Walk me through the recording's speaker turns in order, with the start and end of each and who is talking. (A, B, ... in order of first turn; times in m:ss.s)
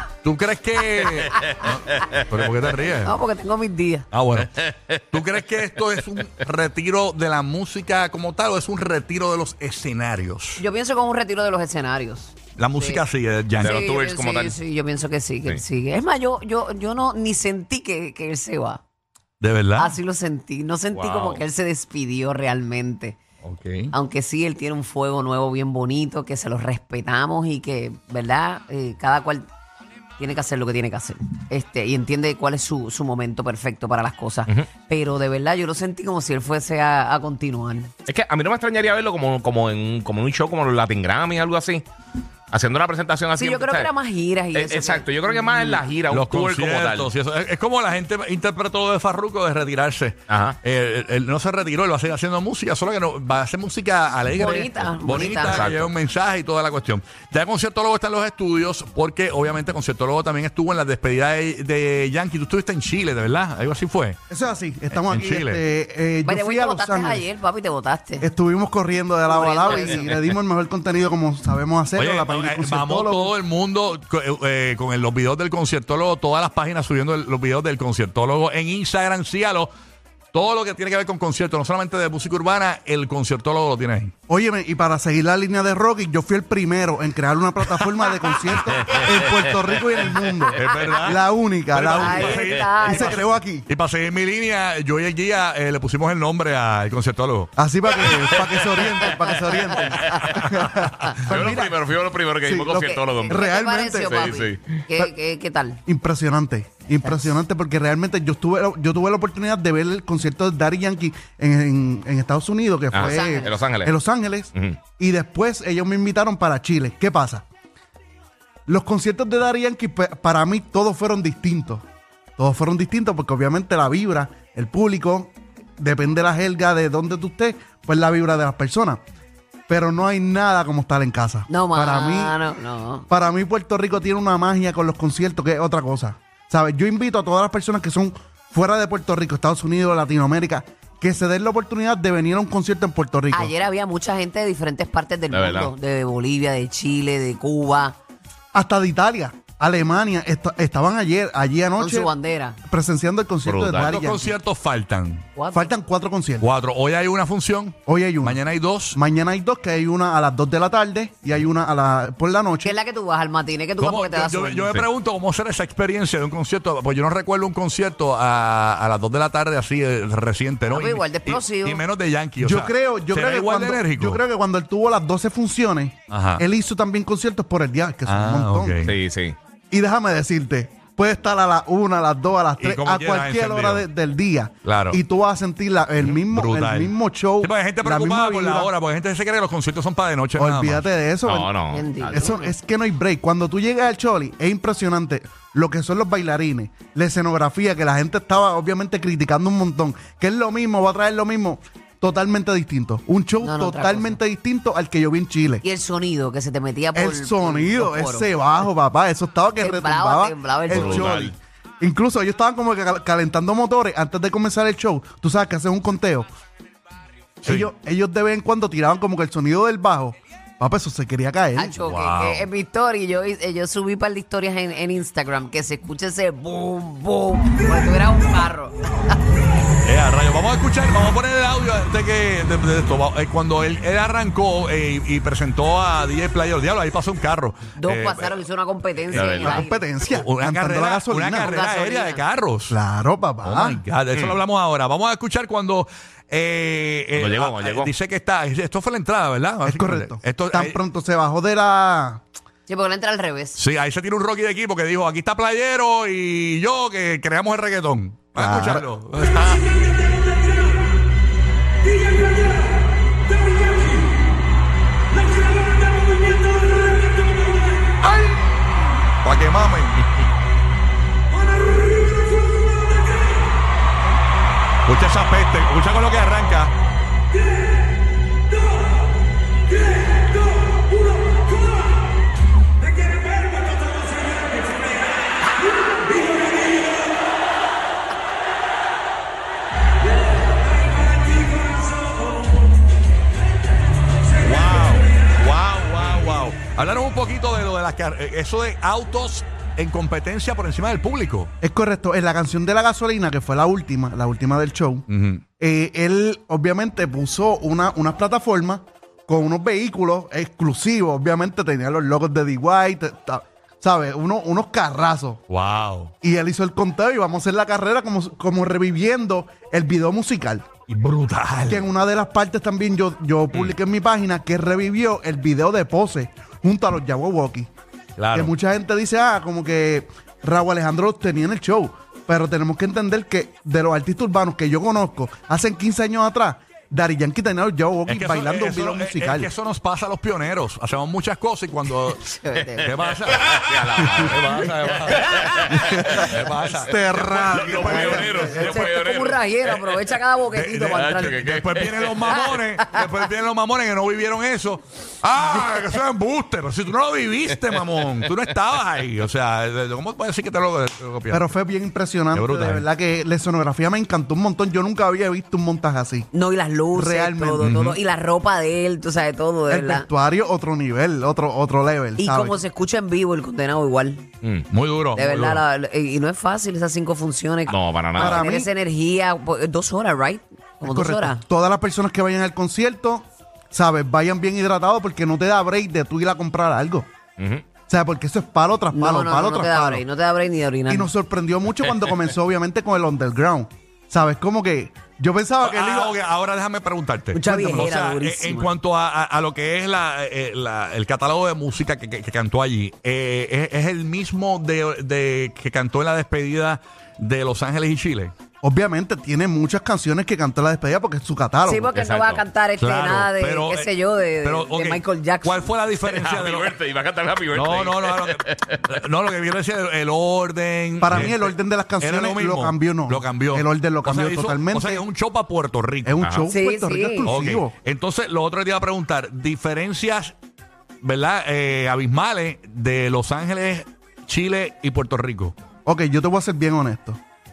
0:00.2-0:03.1 A
0:01.3-0:01.6 B
0:03.0-0:04.0 B
0:04.1-0:10.6 A
0:04.4-0:05.2 C
0:10.6-0:13.0 B
0:12.6-0:13.8 A
0:13.6-0:14.6 C
0:13.6-0:18.8 B
0:19.4-0:20.0 A
0:19.8-0:23.2 B
0:20.9-0:21.4 C
0:23.4-0:23.9 A
0:23.9-0:29.5 B
0:30.2-0:37.9 B
0:38.1-0:41.8 C
0:42.5-0:43.9 C
0:43.3-0:45.8 B
0:44.5-0:47.1 C
0:46.1-1:04.2 A
0:50.3-0:50.6 C
0:54.3-0:55.6 B
0:55.3-0:55.9 C
1:04.3-1:07.2 D
1:04.9-1:05.6 A
1:06.2-1:08.2 B
1:08.2-1:13.4 D
1:09.3-1:10.1 B
1:12.0-1:19.7 A
1:20.3-1:24.1 A
1:24.3-1:33.7 D
1:28.9-1:29.5 C
1:30.5-1:37.5 A
1:31.9-1:33.2 B
1:37.6-1:41.8 D
1:38.0-1:40.5 C
1:41.2-1:44.8 C
1:42.4-1:44.4 D
1:43.2-1:45.8 B
1:45.8-1:57.4 D
1:52.9-1:53.9 C
1:53.0-1:53.6 B
1:54.5-1:54.8 C
1:58.7-2:01.8 D
2:02.4-2:09.0 D
2:09.7-2:12.4 D
2:11.5-2:13.0 B
2:13.1-2:23.5 D
2:23.3-2:28.0 B
2:25.3-2:25.7 C
2:28.5-2:32.1 D
2:31.8-2:32.6 B
2:32.6-2:34.4 D
2:33.4-2:34.0 C
2:33.8-2:35.2 A
2:35.4-2:35.7 B
2:35.5-2:36.5 D
2:36.4-2:39.0 A
2:37.8-2:38.4 D
2:38.9-2:42.8 D
2:42.6-2:44.7 B
2:43.8-2:54.2 A
2:50.7-2:51.8 B
2:52.4-2:58.8 D
2:56.1-2:56.4 A
2:58.0-2:58.9 A
2:58.8-2:59.4 C
2:59.7-3:08.7 D
3:02.6-3:03.9 A
3:04.6-3:05.0 A
3:06.0-3:10.9 A
3:10.4-3:11.5 D
3:11.2-3:12.4 C
3:11.7-3:12.4 B
3:12.0-3:25.6 D
3:23.4-3:24.2 B
3:25.6-3:28.3 B
3:26.9-3:36.3 D
3:29.6-3:31.1 B
3:30.7-3:31.4 C
3:37.4-3:37.7 A
3:37.4-3:41.8 D
3:41.6-3:49.2 B
3:41.8-3:42.5 A
3:49.8-3:58.4 A
3:57.8-3:59.8 B
3:59.1-3:59.6 C
3:59.4-4:01.6 D
4:00.0-4:02.8 A
4:01.4-4:02.2 B
4:02.7-4:03.8 D
4:03.4-4:10.8 A
4:07.1-4:07.9 C
4:09.6-4:12.2 D
4:12.7-4:13.6 B
4:13.6-4:19.7 A
4:18.3-4:18.8 D
4:28.0-4:28.4 A
4:29.2-4:30.2 A
4:34.8-4:36.7 A
4:54.4-5:01.5 A
5:01.6-5:05.0 D
5:05.1-5:05.4 A
5:05.6-5:15.4 D
5:15.5-5:16.1 A
5:16.2-5:20.7 D
5:20.9-5:21.9 A
5:21.6-5:27.7 D
5:28.2-5:28.5 A
5:28.3-5:39.5 D
5:38.0-5:48.9 A
5:42.3-5:42.9 B
5:43.3-5:46.4 C
5:45.8-5:48.4 D
5:47.5-5:49.9 C
5:47.9-5:51.5 B
5:50.5-6:01.5 A
5:50.9-5:52.4 C
5:52.2-5:53.0 B
6:01.3-6:06.3 D
6:02.3-6:02.8 A
6:06.3-6:10.1 B
6:06.9-6:07.7 D
6:07.6-6:08.0 A
6:09.7-6:12.6 D
6:12.2-6:14.2 B
6:14.7-6:15.6 A
6:15.1-6:21.4 B
6:17.7-6:18.4 C
6:18.1-6:18.7 D
6:20.8-6:27.1 D
6:27.4-6:27.6 C
6:27.9-6:30.0 D
6:28.9-6:31.1 B
6:30.9-6:36.2 D
6:35.6-6:48.3 A
6:37.3-6:38.7 B
6:48.6-6:51.9 D
6:51.6-6:55.7 B
6:51.9-6:52.4 C
6:52.8-6:56.8 A
6:56.0-6:58.8 C
6:57.5-7:06.2 A
7:01.0-7:05.0 D
7:06.0-7:07.7 D
7:06.2-7:06.5 C
7:06.5-7:07.3 B
7:07.2-7:10.3 A
7:11.0-7:15.5 A
7:15.8-7:17.2 D